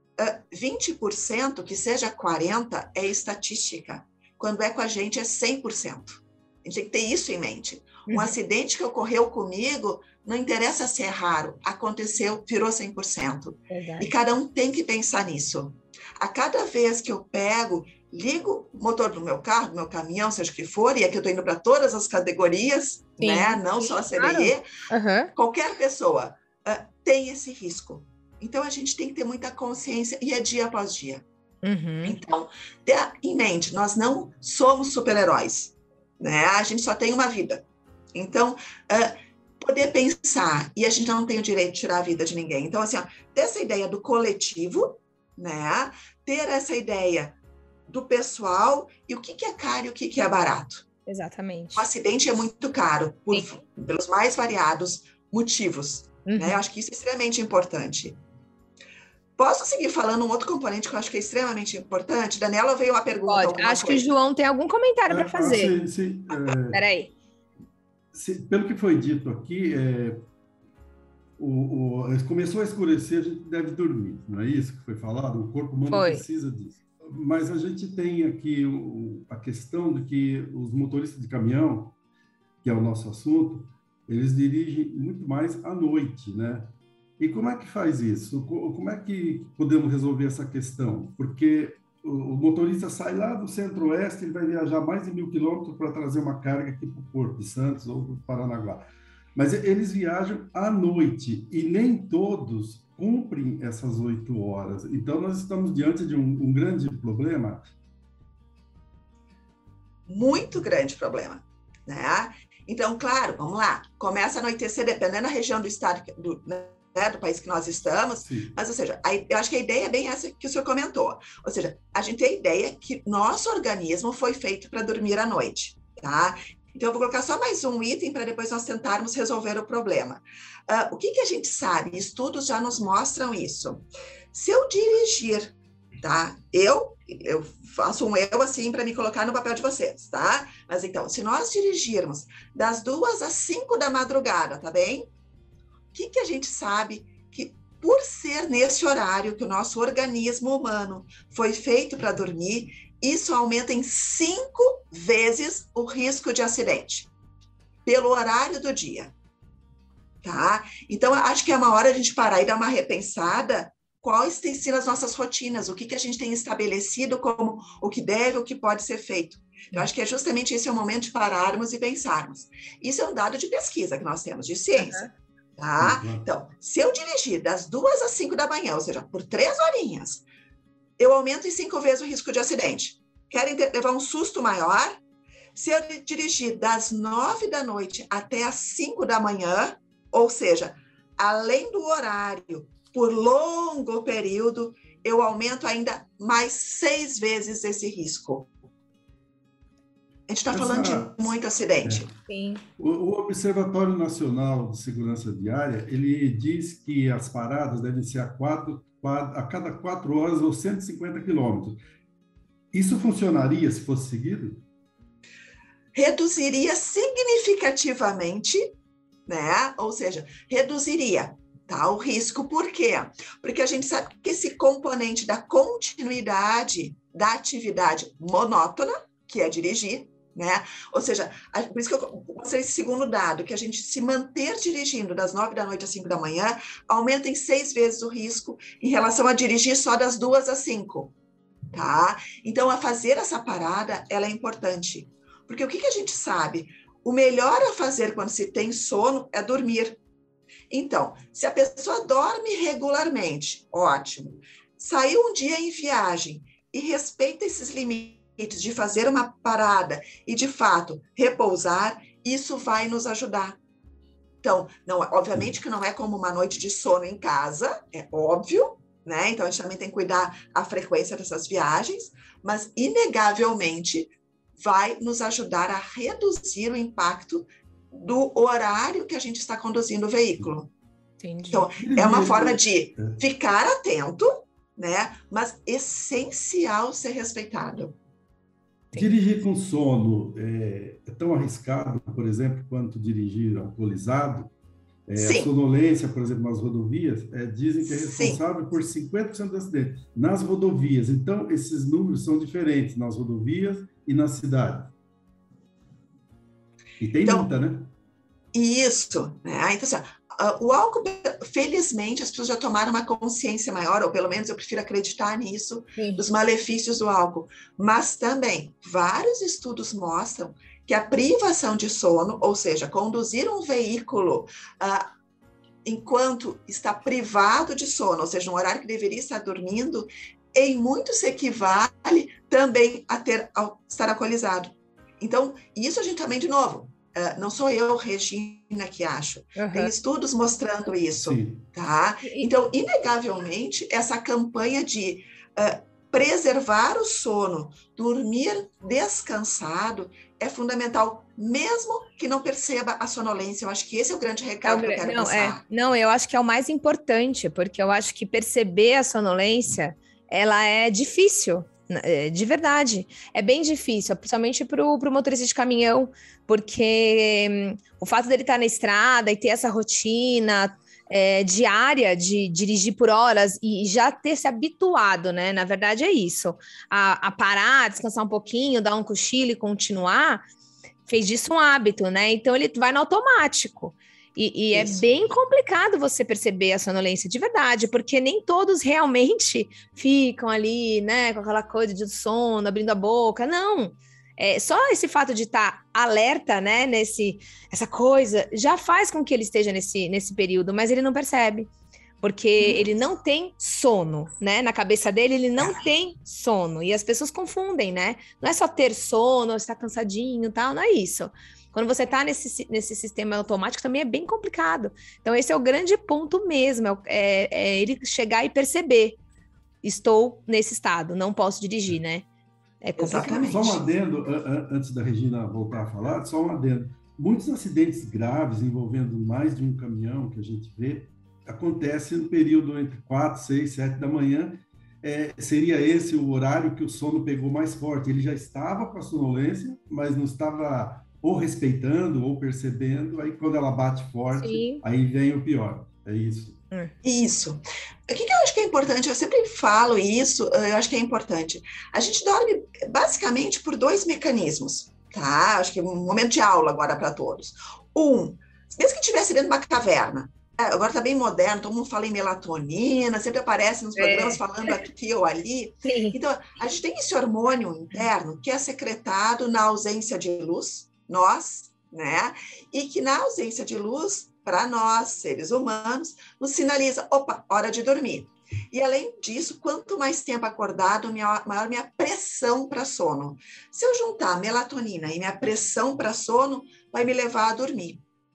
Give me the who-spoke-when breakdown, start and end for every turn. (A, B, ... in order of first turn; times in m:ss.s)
0:00.2-0:24.6 A
0:08.1-0:08.3 B
0:13.7-0:14.1 B
0:23.2-0:25.3 B
0:25.4-0:31.2 A
0:31.6-0:32.2 B
0:32.0-0:47.4 A
0:47.9-0:50.8 A
0:51.0-0:51.8 B
0:51.8-0:58.2 A
0:56.2-0:56.6 B
0:59.4-1:04.1 A
1:03.3-1:05.8 B
1:05.1-1:06.8 C
1:06.7-1:07.1 B
1:08.1-1:10.2 C
1:11.4-1:22.0 C
1:15.9-1:16.2 B
1:22.6-1:47.7 C
1:50.1-2:25.1 A
1:58.2-1:58.5 C
2:25.9-2:37.1 A
2:37.9-2:39.1 A
2:40.2-2:55.1 A
2:54.8-2:55.1 B
2:55.6-3:00.2 A
2:55.8-2:56.2 C
3:01.0-3:05.0 A
3:05.5-3:18.5 A
3:20.3-3:22.1 A
3:20.5-3:21.3 C
3:21.8-3:22.1 C
3:22.3-3:22.6 B
3:22.8-3:31.8 C
3:32.7-3:34.6 C
3:36.0-3:38.7 A
3:39.3-4:01.1 A
4:01.7-4:10.0 A
4:10.7-4:23.6 A
4:24.4-4:40.7 A
4:41.2-4:41.6 B
4:41.5-4:48.0 A
4:41.8-4:43.2 C
4:48.9-4:54.5 C
4:55.1-5:04.9 C
4:55.2-4:55.5 A
4:57.9-4:58.4 A
5:07.0-5:07.9 C
5:07.2-5:07.5 A
5:08.5-5:25.1 A
5:16.0-5:16.2 B
5:25.8-5:55.6 A
5:39.6-5:39.9 B
5:41.2-5:41.6 C
5:54.6-6:20.4 B
6:21.1-6:41.7 B
6:24.7-6:25.1 A
6:42.2-6:59.2 B
6:59.8-7:02.2 B
7:02.8-7:03.4 B
7:03.0-7:03.9 A
7:03.3-7:26.6 C
7:24.4-7:24.8 B
7:27.0-8:08.0 A
7:44.0-7:44.4 B
7:45.8-7:46.2 B